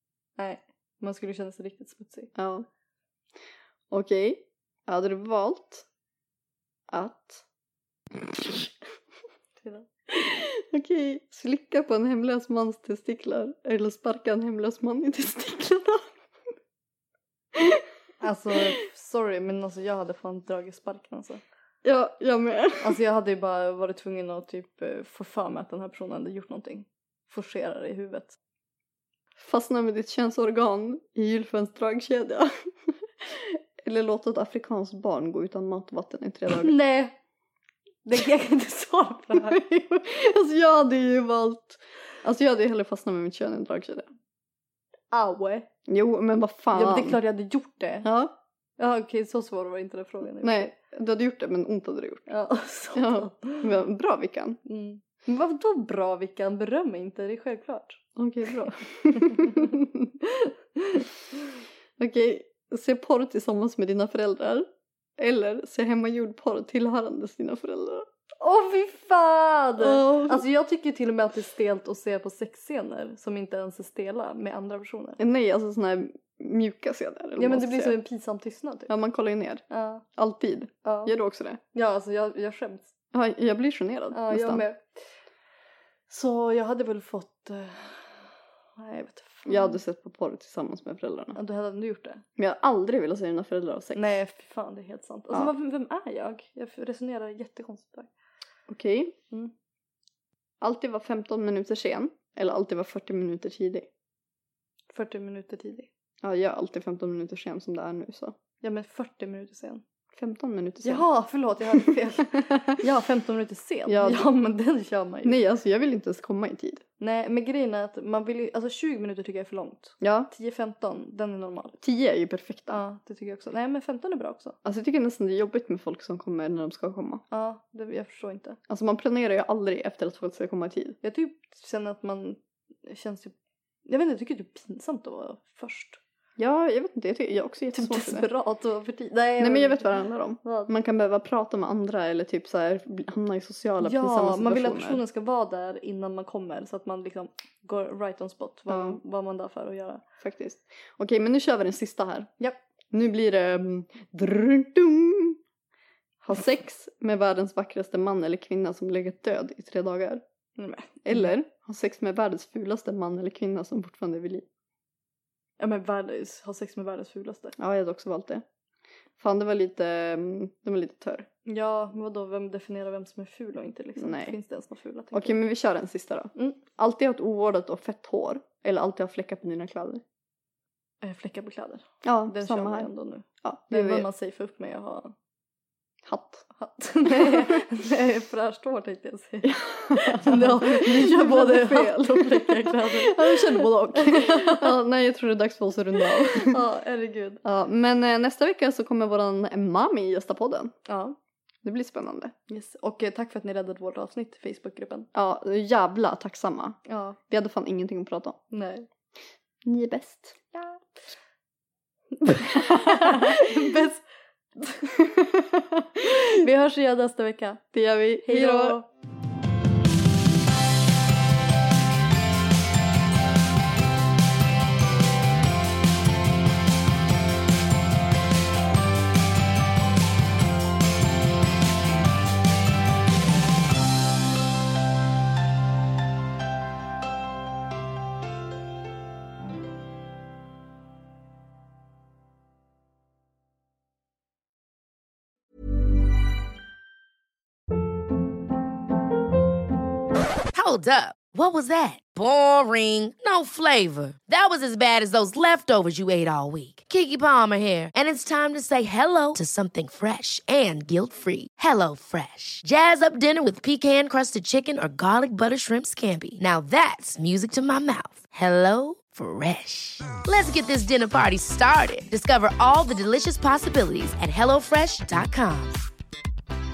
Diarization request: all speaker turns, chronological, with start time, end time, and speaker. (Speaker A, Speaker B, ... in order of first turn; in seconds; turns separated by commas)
Speaker A: 0.4-2.3, Speaker B: 2.3-2.6, Speaker B: 3.9-5.8, Speaker B: 6.9-7.4, Speaker B: 8.1-8.7, Speaker B: 10.1-16.1, Speaker B: 17.5-17.9, Speaker A: 18.2-21.4, Speaker B: 21.8-23.0, Speaker A: 22.8-28.4, Speaker B: 29.4-36.8, Speaker A: 36.5-37.1, Speaker A: 38.1-39.6, Speaker B: 39.3-44.1, Speaker A: 45.1-45.7, Speaker B: 45.9-47.2, Speaker A: 46.7-48.1, Speaker B: 48.0-48.3, Speaker A: 48.8-50.7, Speaker B: 50.4-52.3, Speaker A: 52.3-53.7, Speaker B: 52.9-54.6, Speaker A: 54.6-58.0, Speaker B: 58.1-60.1, Speaker A: 59.1-59.7, Speaker A: 60.2-61.1, Speaker B: 62.0-68.1, Speaker A: 68.4-75.2, Speaker B: 69.8-70.5, Speaker B: 75.2-78.0, Speaker A: 77.4-78.9, Speaker B: 78.9-81.6, Speaker A: 79.7-80.0, Speaker A: 80.8-81.1, Speaker A: 81.7-82.9, Speaker B: 83.1-84.6, Speaker A: 84.1-85.0, Speaker A: 86.1-89.8, Speaker B: 89.5-91.4, Speaker A: 91.3-92.2, Speaker B: 92.4-94.2, Speaker A: 93.9-98.1, Speaker B: 98.7-99.2, Speaker B: 100.6-103.9, Speaker A: 104.9-105.9, Speaker B: 106.2-108.4, Speaker A: 108.6-109.8, Speaker B: 110.1-111.0, Speaker A: 110.8-115.4, Speaker B: 111.7-112.8, Speaker B: 113.9-114.3, Speaker B: 115.2-116.8, Speaker A: 117.0-121.8, Speaker B: 120.0-120.3, Speaker B: 121.8-122.8, Speaker A: 122.7-124.5, Speaker B: 124.6-127.2, Speaker A: 127.3-128.6, Speaker B: 128.7-131.0, Speaker A: 131.0-133.3, Speaker A: 133.8-136.0, Speaker B: 136.4-138.3, Speaker A: 137.7-140.7, Speaker B: 139.4-145.0, Speaker A: 143.8-150.0, Speaker B: 148.7-149.0, Speaker B: 150.2-152.4, Speaker B: 152.9-155.4, Speaker B: 156.2-160.2, Speaker A: 160.6-161.3, Speaker B: 161.0-164.4, Speaker A: 165.6-167.6, Speaker B: 167.6-168.4, Speaker B: 169.2-171.3, Speaker A: 171.4-175.4, Speaker B: 174.0-174.4, Speaker B: 175.1-180.0, Speaker A: 176.3-176.6, Speaker A: 181.0-185.1, Speaker B: 182.0-182.9, Speaker B: 183.4-184.1, Speaker B: 186.0-186.4, Speaker A: 186.6-194.8, Speaker B: 187.0-187.6, Speaker B: 189.4-196.6, Speaker A: 196.1-197.4, Speaker B: 197.4-200.7, Speaker A: 200.9-201.2, Speaker B: 201.6-202.3, Speaker A: 202.5-205.1, Speaker B: 205.1-208.4, Speaker A: 206.9-207.2, Speaker A: 208.5-208.9, Speaker B: 209.6-210.5, Speaker B: 212.2-213.3, Speaker A: 212.2-214.0, Speaker B: 215.0-216.2, Speaker A: 216.4-217.6, Speaker B: 217.7-218.8, Speaker A: 218.2-218.9, Speaker C: 250.5-275.8